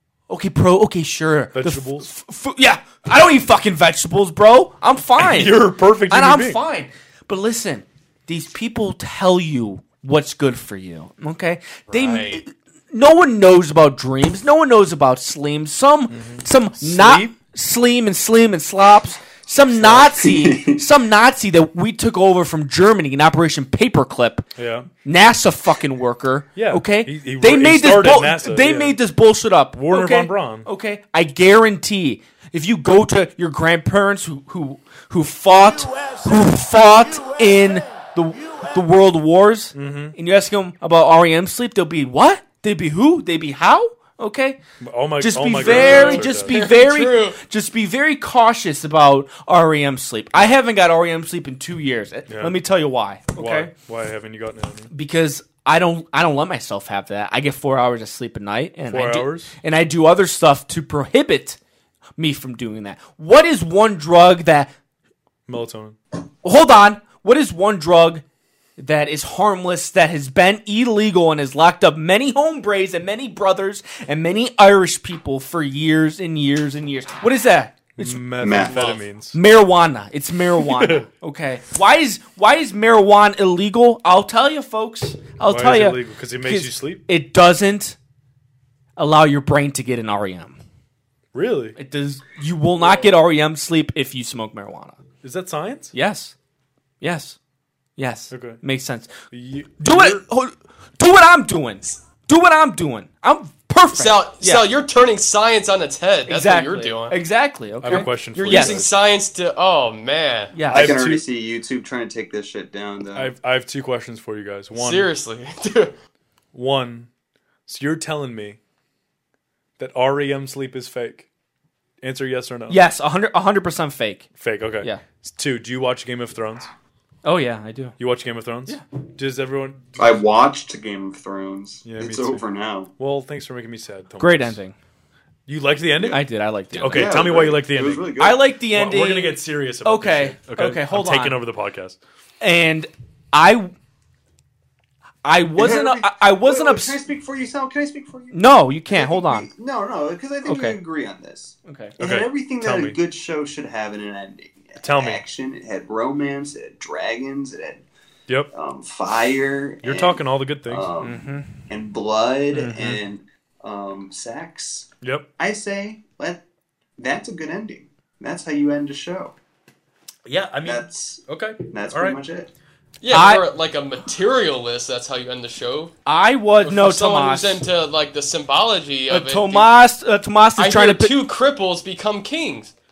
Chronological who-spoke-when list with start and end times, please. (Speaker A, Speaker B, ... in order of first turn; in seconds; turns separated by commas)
Speaker A: 0.3-24.5, Speaker B: 1.5-2.1, Speaker B: 5.2-6.6, Speaker C: 11.9-12.4, Speaker B: 16.1-17.3, Speaker D: 19.8-20.8, Speaker B: 24.6-24.9, Speaker A: 25.1-44.6, Speaker B: 26.6-29.0, Speaker B: 29.8-30.7, Speaker B: 39.7-40.2, Speaker B: 44.8-46.6, Speaker A: 45.2-53.7, Speaker C: 45.6-47.4, Speaker B: 52.3-52.6, Speaker B: 53.4-54.9, Speaker A: 54.9-61.6, Speaker B: 58.9-59.5, Speaker A: 62.2-64.7, Speaker B: 65.5-66.0, Speaker A: 66.4-68.2, Speaker A: 68.8-78.2, Speaker B: 78.0-79.4, Speaker D: 78.4-79.0, Speaker C: 78.7-79.0, Speaker A: 79.3-88.0, Speaker B: 80.6-81.1, Speaker B: 85.5-87.0, Speaker A: 89.0-90.6, Speaker B: 91.3-91.8, Speaker A: 91.8-95.0, Speaker B: 95.2-95.9, Speaker A: 95.9-96.3, Speaker A: 97.0-97.4, Speaker A: 98.0-99.1, Speaker B: 98.3-98.6, Speaker B: 99.3-100.2, Speaker A: 99.8-104.7, Speaker C: 103.9-107.2, Speaker A: 106.3-108.9, Speaker B: 107.8-108.9, Speaker C: 107.9-110.6, Speaker A: 110.5-111.0, Speaker D: 110.7-113.3, Speaker B: 110.7-111.2, Speaker B: 113.2-115.1, Speaker C: 114.7-116.0, Speaker B: 116.5-117.1, Speaker B: 117.7-118.6, Speaker B: 119.8-121.3, Speaker B: 122.0-122.8, Speaker A: 122.7-124.3, Speaker B: 124.4-126.7, Speaker A: 127.2-128.0, Speaker B: 128.0-130.2, Speaker D: 130.0-132.9, Speaker B: 131.8-132.4, Speaker B: 133.0-134.6, Speaker A: 134.2-134.8, Speaker B: 135.5-138.1, Speaker A: 136.1-137.2, Speaker D: 136.8-138.4, Speaker A: 138.2-141.4, Speaker B: 138.7-142.0, Speaker A: 142.4-143.7, Speaker A: 145.2-147.0, Speaker D: 145.6-157.8, Speaker A: 148.3-149.5, Speaker A: 150.5-150.8, Speaker A: 151.7-151.9, Speaker B: 152.0-153.0, Speaker B: 154.8-155.2, Speaker D: 158.5-166.4, Speaker B: 159.8-160.9, Speaker A: 161.0-161.6, Speaker A: 162.6-162.9, Speaker D: 167.0-169.3, Speaker B: 170.3-172.2, Speaker D: 170.6-172.5, Speaker C: 173.0-175.9, Speaker A: 173.1-173.5, Speaker A: 176.1-177.7, Speaker C: 176.6-179.7, Speaker A: 179.1-181.2, Speaker C: 180.6-182.7